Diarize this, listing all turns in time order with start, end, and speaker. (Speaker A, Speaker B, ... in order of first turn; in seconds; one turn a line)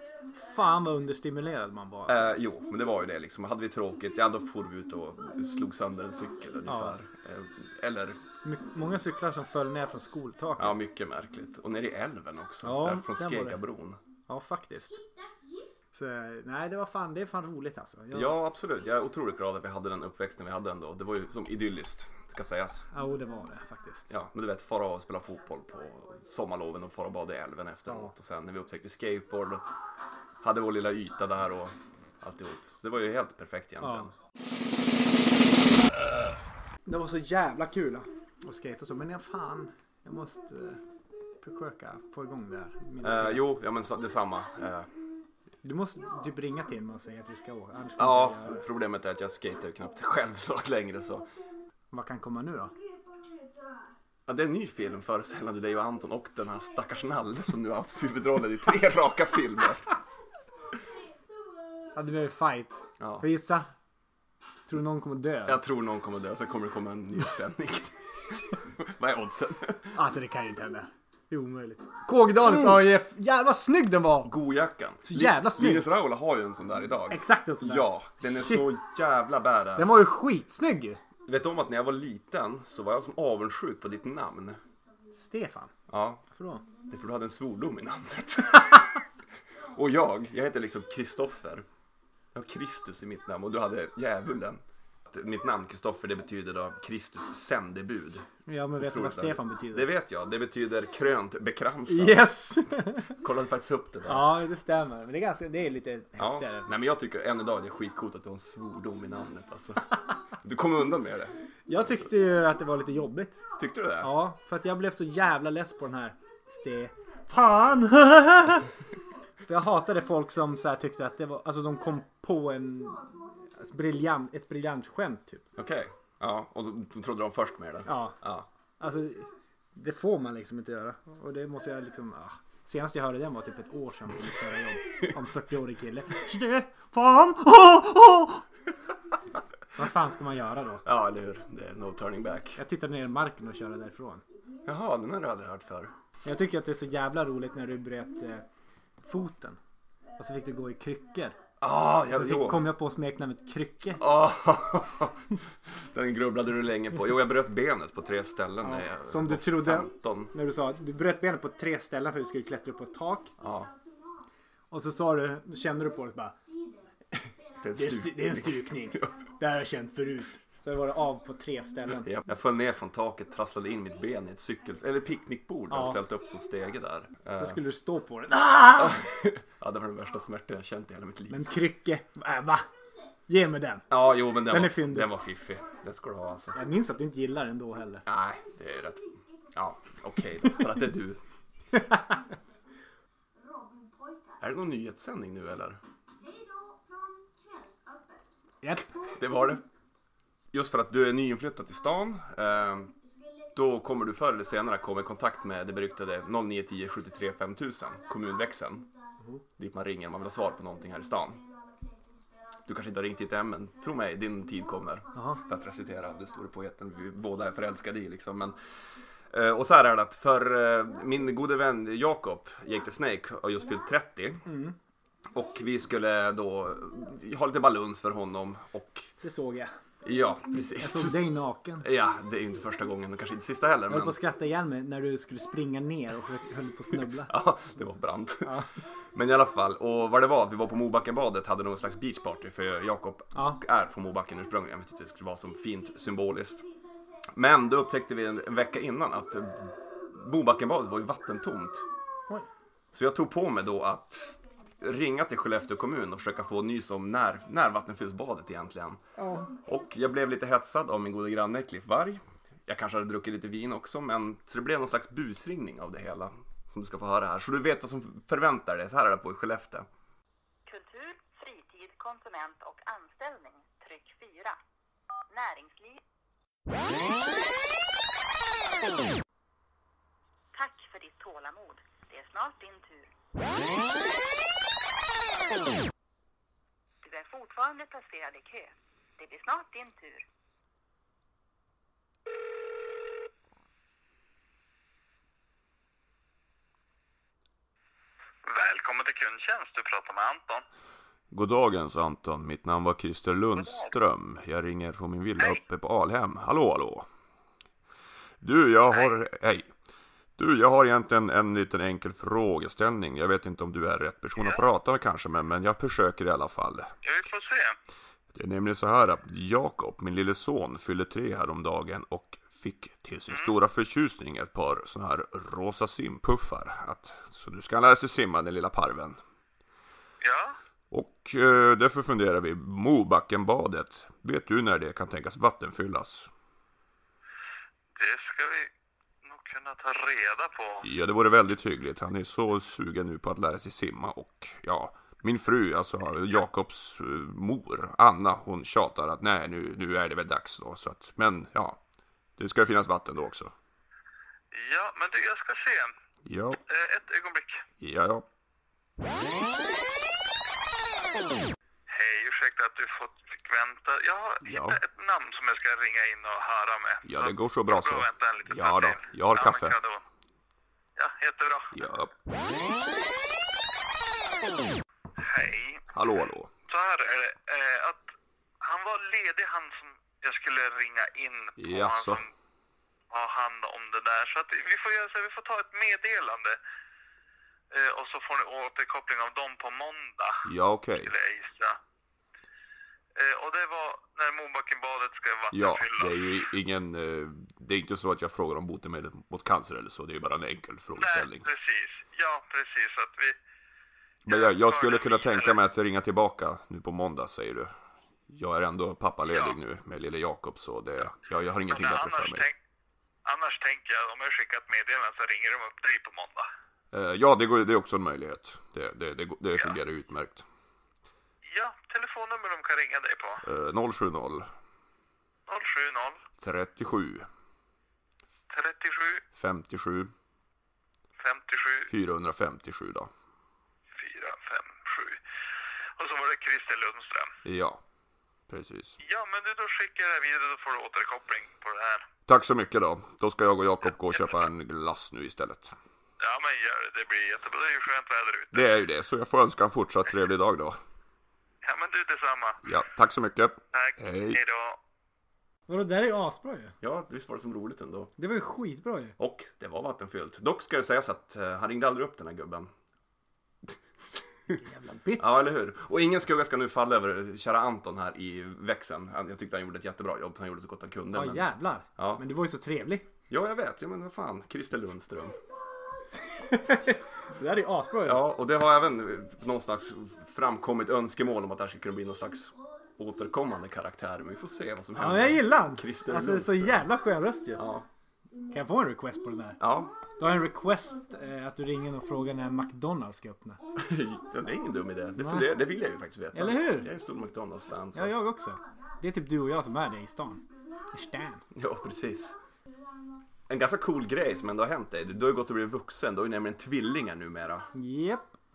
Speaker A: 0.3-2.3
Speaker B: 2.1-8.2
Speaker A: 6.7-7.0
Speaker A: 8.4-10.8
Speaker B: 10.6-14.0
Speaker A: 12.6-13.6
Speaker A: 14.3-15.0
Speaker A: 15.9-18.3
Speaker B: 18.1-22.9
Speaker A: 22.9-24.1
Speaker B: 24.1-29.6
Speaker B: 30.4-34.1
Speaker A: 33.8-34.1
Speaker A: 36.9-40.8
Speaker A: 41.4-43.4
Speaker B: 43.0-44.9
Speaker A: 45.6-48.6
Speaker B: 48.0-51.3
Speaker A: 51.9-52.7
Speaker B: 54.3-59.9
Speaker A: 62.0-63.7
Speaker B: 63.0-63.2
Speaker A: 64.7-65.6
Speaker B: 65.5-69.9
Speaker A: 69.9-74.3
Speaker B: 72.4-72.8
Speaker B: 74.2-80.0
Speaker A: 75.0-75.9
Speaker A: 77.1-78.7
Speaker A: 79.8-81.0
Speaker B: 81.2-84.6
Speaker A: 85.1-85.7
Speaker B: 85.9-86.2
Speaker A: 86.3-86.6
Speaker B: 86.8-89.0
Speaker B: 89.7-91.7
Speaker B: 92.3-98.2
Speaker A: 98.5-99.9
Speaker B: 98.8-102.3
Speaker A: 101.9-103.1
Speaker B: 103.1-104.3
Speaker A: 104.0-106.7
Speaker B: 106.2-109.8
Speaker B: 110.4-111.4
Speaker A: 111.7-113.4
Speaker B: 113.6-114.1
Speaker A: 114.0-118.7
Speaker A: 119.4-125.5
Speaker B: 125.5-128.5
Speaker A: 127.8-128.2
Speaker A: 128.8-138.4
Speaker A: 139.7-140.8
Speaker B: 140.8-142.6
Speaker A: 142.6-144.2
Speaker B: 144.7-145.9
Speaker A: 146.2-148.4
Speaker A: 149.0-149.6
Speaker A: 150.2-151.4
Speaker B: 151.6-152.6
Speaker A: 152.1-154.0
Speaker B: 154.0-155.2
Speaker B: 155.9-160.3
Speaker A: 158.6-163.3
Speaker B: 163.4-163.7
Speaker A: 164.7-166.3
Speaker B: 167.6-169.1
Speaker A: 167.7-172.1
Speaker B: 172.0-177.6
Speaker A: 175.7-176.0
Speaker A: 177.4-179.0
Speaker B: 178.7-181.4
Speaker A: 181.3-182.7
Speaker A: 183.3-183.9
Speaker B: 183.9-186.6
Speaker A: 184.4-185.1
Speaker A: 186.5-188.0
Speaker B: 188.1-191.2
Speaker A: 191.7-192.2
Speaker B: 194.4-195.8
Speaker A: 198.6-199.0
Speaker B: 199.1-199.6
Speaker B: 200.5-202.9
Speaker B: 203.5-208.9
Speaker B: 209.6-211.4
Speaker B: 212.6-218.6
Speaker A: 215.1-215.4
Speaker B: 219.3-224.4
Speaker A: 224.4-224.8
Speaker B: 225.3-229.1
Speaker A: 229.2-229.7
Speaker B: 230.0-231.2
Speaker A: 230.8-231.9
Speaker B: 231.8-234.2
Speaker A: 233.9-237.3
Speaker B: 237.1-238.6
Speaker A: 238.4-238.7
Speaker B: 239.1-246.6
Speaker A: 243.3-243.6
Speaker B: 247.3-251.8
Speaker B: 252.9-259.0
Speaker A: 259.1-259.5
Speaker B: 259.6-269.9
Speaker C: 270.6-274.6
Speaker C: 275.3-276.0
Speaker C: 280.5-283.1
Speaker C: 287.0-290.2
Speaker D: 298.4-300.6
Speaker B: 301.3-307.1
Speaker D: 303.6-303.9
Speaker B: 308.4-309.7
Speaker B: 310.4-316.9
Speaker D: 314.4-314.6
Speaker D: 317.0-317.8
Speaker B: 318.3-329.2
Speaker D: 330.2-330.6
Speaker B: 330.9-336.3
Speaker D: 337.9-338.7
Speaker D: 339.2-340.9
Speaker B: 340.8-351.8
Speaker B: 352.4-353.5
Speaker D: 354.5-355.9
Speaker B: 356.2-356.6
Speaker D: 356.7-357.7
Speaker B: 357.8-358.2
Speaker D: 361.9-370.0
Speaker B: 364.4-364.8
Speaker B: 367.0-369.8
Speaker D: 370.9-371.8
Speaker B: 371.7-372.1
Speaker D: 375.2-375.8
Speaker B: 375.9-376.5
Speaker D: 376.7-382.3
Speaker B: 381.6-382.2
Speaker D: 383.1-386.6
Speaker D: 387.7-391.8
Speaker B: 390.4-391.1
Speaker D: 393.1-396.3
Speaker B: 395.5-401.5
Speaker D: 400.9-403.4
Speaker B: 404.2-407.7
Speaker D: 404.2-405.6
Speaker B: 408.3-412.4
Speaker D: 409.3-409.5
Speaker D: 411.7-412.5
Speaker D: 413.2-416.5
Speaker B: 416.9-420.4
Speaker D: 421.4-423.4
Speaker B: 423.4-424.5
Speaker D: 425.5-426.2
Speaker B: 426.4-427.3
Speaker D: 428.5-429.2
Speaker B: 429.3-430.1
Speaker D: 431.2-431.9
Speaker B: 431.9-433.1
Speaker D: 433.9-435.2
Speaker D: 436.0-437.3
Speaker B: 437.4-437.8
Speaker B: 438.5-439.0
Speaker D: 439.0-442.1
Speaker B: 442.3-445.8
Speaker D: 444.1-444.4
Speaker D: 446.2-448.7
Speaker B: 448.5-450.8
Speaker D: 451.6-452.6
Speaker B: 452.6-454.4
Speaker D: 453.7-454.8
Speaker A: 455.7-456.7
Speaker B: 456.8-458.1
Speaker A: 458.2-459.1
Speaker B: 459.2-462.7
Speaker B: 463.6-464.6
Speaker A: 464.5-465.4
Speaker B: 465.2-472.2
Speaker A: 471.1-473.1
Speaker B: 473.3-475.4
Speaker A: 476.2-478.2
Speaker B: 478.0-486.9
Speaker A: 484.9-487.6
Speaker B: 487.6-487.9
Speaker A: 488.5-489.6
Speaker B: 489.6-489.9
Speaker A: 490.2-493.6
Speaker B: 493.8-498.1
Speaker A: 495.2-495.5
Speaker A: 496.3-496.9
Speaker A: 497.9-501.4
Speaker B: 501.5-502.3
Speaker B: 503.5-507.7
Speaker A: 507.7-508.4